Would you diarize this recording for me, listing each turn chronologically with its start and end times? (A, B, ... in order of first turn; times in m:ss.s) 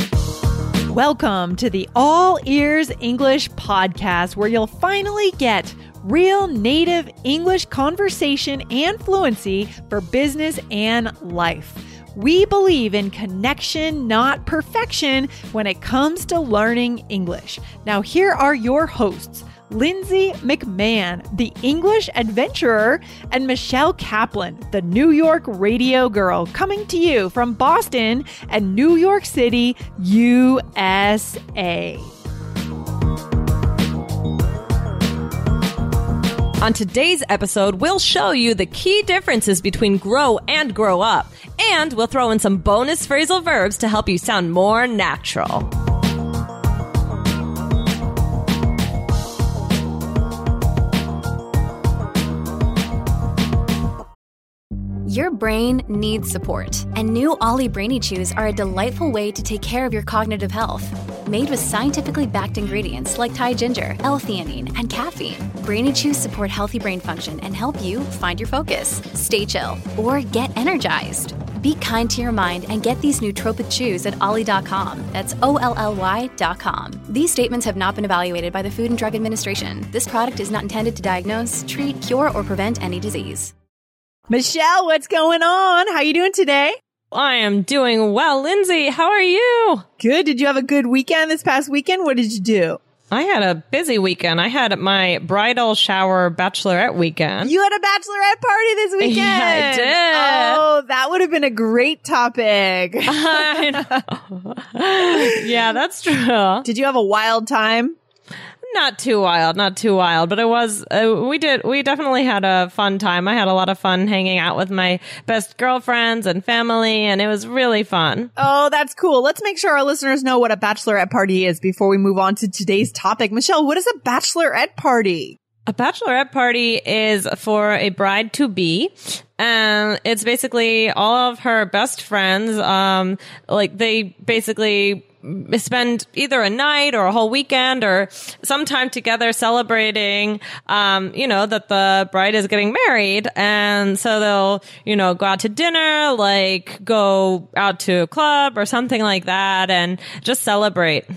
0:00.9-0:32.1 A
0:36.6-0:45.7 B
0:55.1-1:23.5 C
1:24.3-1:26.8 A
1:27.1-1:29.8 B
1:30.0-1:32.8 A
1:33.1-1:37.5 B
1:37.4-1:44.0 A
1:39.0-1:40.6 B
1:43.1-1:46.7 B
1:46.6-1:48.0 A
1:48.6-1:58.3 B
1:58.4-2:05.4 A
2:05.7-2:31.1 B